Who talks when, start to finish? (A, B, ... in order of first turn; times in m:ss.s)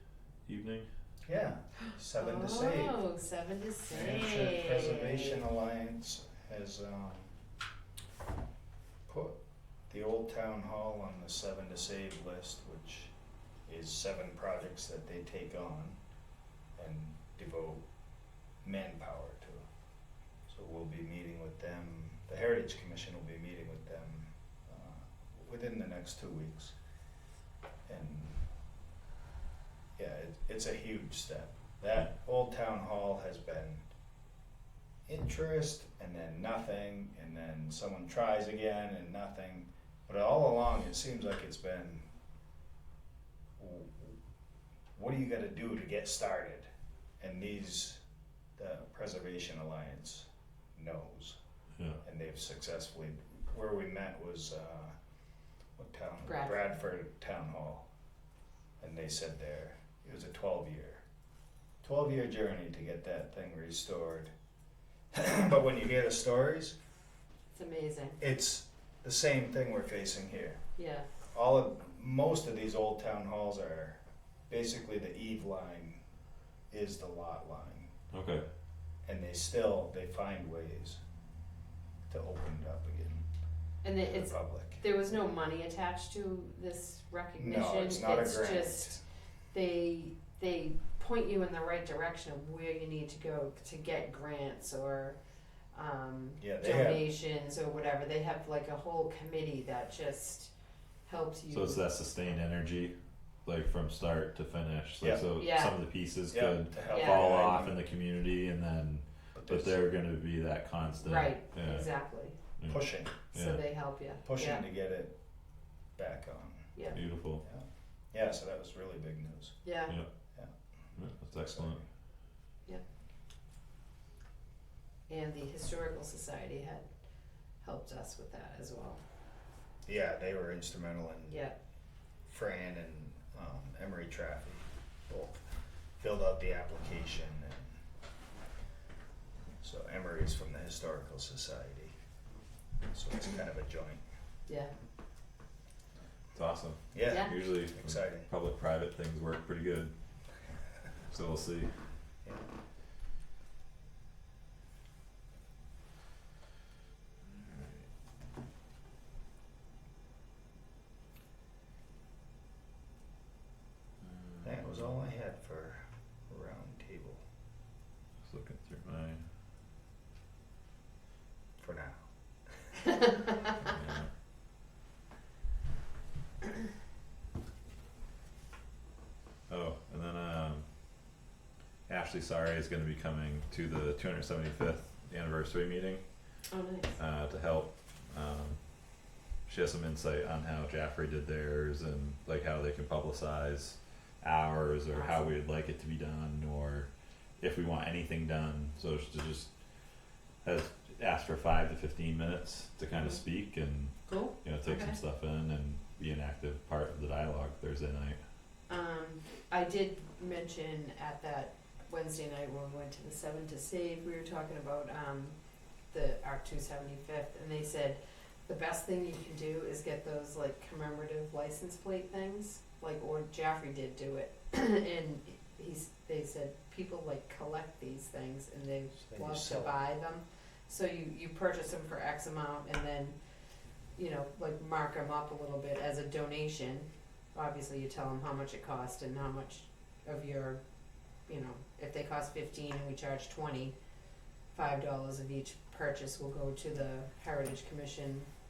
0:00.4-0:00.9 A
0:01.2-0:03.0 B
0:02.2-0:05.4 C
0:03.9-0:07.3 B
0:09.1-0:13.1 B
0:13.7-0:16.0 B
0:16.8-0:17.8 B
0:18.6-0:19.6 B
0:20.5-0:26.8 B
0:27.8-0:28.4 B
0:30.0-0:33.8 B
0:35.0-0:42.1 B
0:43.6-0:44.2 B
0:45.0-0:46.6 B
0:47.2-0:48.0 B
0:48.6-0:51.4 B
0:52.0-0:54.9 B
0:55.8-0:57.9 B
0:56.2-0:56.7 C
0:58.8-1:01.0 B
1:01.8-1:04.3 B
1:05.1-1:06.8 B
1:07.5-1:08.2 C
1:08.2-1:10.6 B
1:10.8-1:11.1 C
1:11.3-1:16.0 B
1:16.7-1:17.9 B
1:18.1-1:18.4 A
1:19.0-1:21.0 B
1:22.1-1:23.2 B
1:23.8-1:29.0 C
1:24.0-1:24.8 B
1:27.4-1:29.0 B
1:29.5-1:35.2 C
1:35.7-1:40.5 C
1:36.4-1:37.1 B
1:41.0-1:41.8 C
1:41.5-1:51.9 A
1:45.0-1:45.3 B
1:45.4-1:45.7 C
1:46.3-1:47.8 B
1:46.9-1:47.2 C
1:49.3-1:50.0 B
1:51.0-1:52.4 C
1:52.6-1:53.6 A
1:52.7-1:53.2 B
1:53.3-1:54.6 C
1:54.2-1:55.2 B
1:56.0-1:56.8 B
1:56.9-1:57.4 A
1:57.4-1:59.6 B
1:59.6-2:00.0 C
2:00.9-2:01.8 A
2:01.4-2:01.8 B
2:05.1-2:06.8 C
2:07.6-2:09.0 C
2:09.8-2:11.4 B
2:11.3-2:11.6 C
2:12.2-2:15.4 B
2:16.0-2:17.7 B
2:19.6-2:21.9 B
2:22.9-2:24.0 B
2:24.5-2:24.7 C
2:26.3-2:29.9 A
2:26.9-2:28.3 B
2:27.1-2:27.3 C
2:31.1-2:31.7 A
2:32.2-2:32.5 B
2:37.2-2:37.8 A
2:44.0-2:44.9 A
2:44.4-2:47.2 B
2:48.2-2:49.2 A
2:51.6-2:52.0 B
2:53.6-2:54.1 A
2:59.5-3:00.6 A
3:01.9-3:06.1 A
3:06.5-3:07.0 C
3:07.0-3:08.6 A
3:09.4-3:19.5 A
3:14.9-3:15.2 C
3:20.4-3:28.2 A
3:22.9-3:23.2 C
3:23.8-3:25.0 C
3:28.7-3:35.4 C
3:35.9-3:53.2 C
3:49.0-3:49.7 B
3:53.9-4:00.6 C
4:01.2-4:03.7 C
4:04.5-4:08.4 C